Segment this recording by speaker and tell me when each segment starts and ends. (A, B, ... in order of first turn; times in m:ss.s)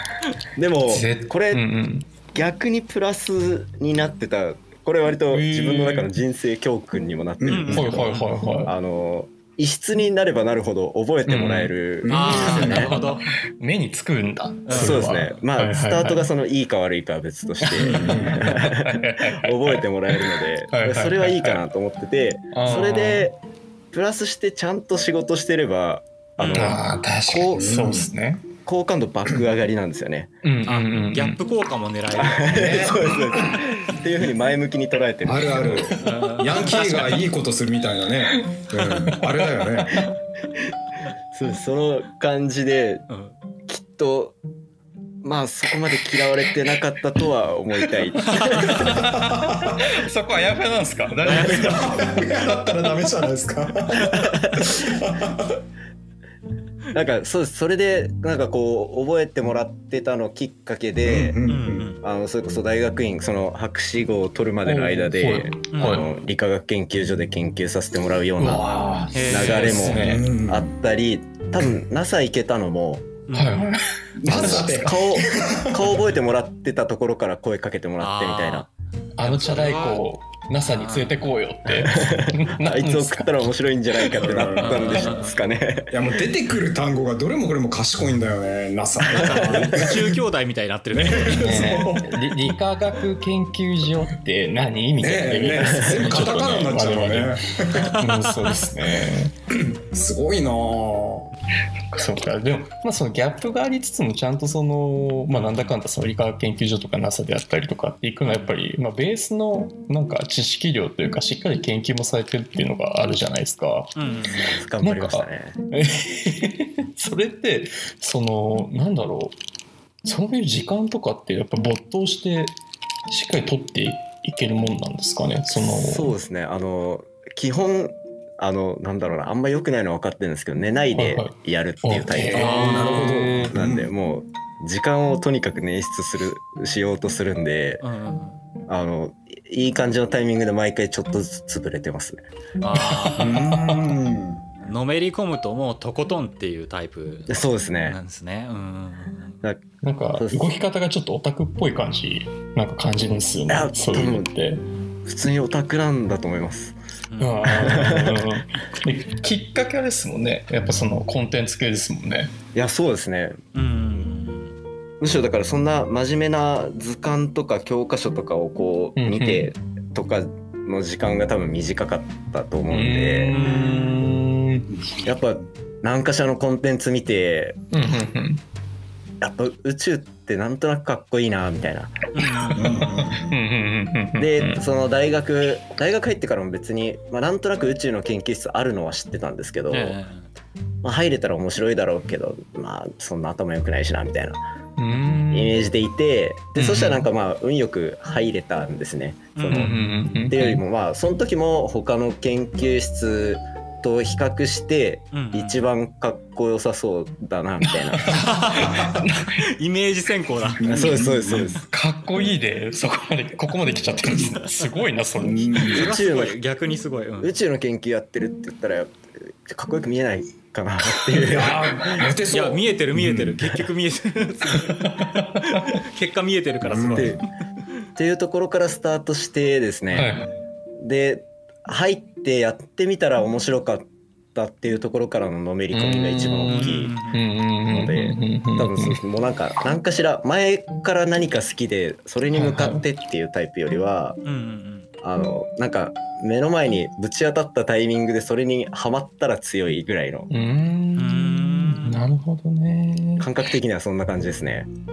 0:00.6-0:01.6 A
0:00.8-0:02.1 B
0:02.3-0:12.9 A
0:05.3-0:06.1 B
0:07.4-0:07.8 C
0:07.5-0:08.3 D
0:07.7-0:08.7 B
0:11.2-0:11.7 B
0:12.0-0:12.9 C
0:12.1-0:13.3 D
0:12.6-0:16.3 B
0:14.6-0:15.2 D
0:14.7-0:23.4 A
0:17.6-0:21.6 B
0:17.8-0:18.4 C
0:22.5-0:23.3 B
0:23.9-0:27.7 A
0:26.4-0:26.8 D
0:26.5-0:28.5 B
0:27.5-0:28.1 C
0:28.6-0:30.3 A
0:30.4-0:31.4 B
0:30.6-0:32.9 D
0:32.1-0:35.9 A
0:32.5-0:33.6 C
0:35.2-0:40.1 C
0:35.8-0:37.2 B
0:36.0-0:37.1 D
0:41.3-0:43.0 A
0:43.1-0:43.4 D
0:43.7-0:44.4 A
0:45.2-0:48.9 A
0:48.3-0:48.6 D
0:48.4-0:52.0 B
0:48.8-0:49.8 C
0:51.2-0:51.8 D
0:51.4-0:55.6 C
0:54.1-0:54.6 A
0:56.9-1:01.4 A
1:01.0-1:01.9 C
1:01.4-1:02.0 D
1:02.0-1:13.1 A
1:04.6-1:06.1 B
1:05.7-1:06.0 D
1:08.4-1:10.3 B
1:09.1-1:09.9 D
1:09.8-1:10.7 C
1:13.3-1:13.7 D
1:13.3-1:14.9 B
1:14.2-1:16.0 C
1:14.2-1:18.7 A
1:18.0-1:20.0 D
1:19.2-1:24.2 B
1:20.7-1:21.2 D
1:21.7-1:25.9 A
1:24.2-1:25.1 C
1:24.6-1:25.4 D
1:25.9-1:30.2 C
1:29.1-1:31.7 D
1:30.9-1:32.5 C
1:31.2-1:39.3 B
1:35.0-1:37.9 C
1:37.7-1:38.6 D
1:39.5-1:41.3 C
1:41.9-1:53.9 B
1:45.3-1:45.7 D
1:54.0-1:54.6 D
1:54.5-1:55.6 A
1:54.8-1:59.4 B
2:00.0-2:02.6 B
2:03.1-2:06.1 B
2:05.5-2:12.6 A
2:10.9-2:13.5 B
2:12.3-2:13.9 C
2:12.3-2:13.1 D
2:13.5-2:17.8 A
2:17.8-2:18.4 D
2:18.7-2:22.2 A
2:22.6-2:23.5 D
2:22.7-2:24.0 B
2:23.1-2:24.6 C
2:24.6-2:29.4 D
2:27.3-2:28.0 A
2:29.4-2:30.5 A
2:29.8-2:34.6 B
2:33.5-2:34.3 A
2:35.0-2:36.7 A
2:37.1-2:37.5 D
2:37.2-2:42.3 B
2:37.4-2:38.3 A
2:42.5-2:43.4 A
2:43.5-2:44.5 D
2:45.0-2:53.4 A
2:49.0-2:49.5 B
2:52.7-2:54.7 B
2:53.4-2:53.6 D
2:55.0-2:57.6 A
2:57.7-2:58.4 B
2:59.2-3:02.0 A
3:02.1-3:03.0 D
3:02.6-3:03.4 C
3:02.7-3:04.6 B
3:04.2-3:10.0 A
3:09.7-3:10.3 D
3:10.8-3:14.4 A
3:14.8-3:15.6 B
3:15.3-3:28.1 A
3:16.5-3:17.1 B
3:19.4-3:19.7 D
3:19.5-3:20.6 B
3:25.1-3:25.6 D
3:27.6-3:29.4 B
3:28.0-3:31.0 D
3:28.6-3:29.0 C
3:30.6-3:31.6 C
3:30.7-3:31.6 A
3:31.7-3:35.9 B
3:35.2-3:35.8 C
3:35.7-3:37.3 D
3:35.7-3:36.4 A
3:37.2-3:42.1 A
3:41.1-3:43.6 C
3:42.3-3:47.2 D
3:44.8-3:45.6 B
3:46.6-3:47.2 C
3:46.9-3:47.2 A
3:48.0-3:50.1 A
3:49.9-3:50.3 B
3:50.8-3:57.0 A
3:55.7-3:59.0 B
3:56.5-3:57.2 D
3:57.7-4:04.2 A
4:02.3-4:02.8 B
4:04.2-4:04.9 D
4:05.0-4:10.3 A
4:10.3-4:13.3 B
4:11.0-4:12.0 D
4:13.2-4:14.7 A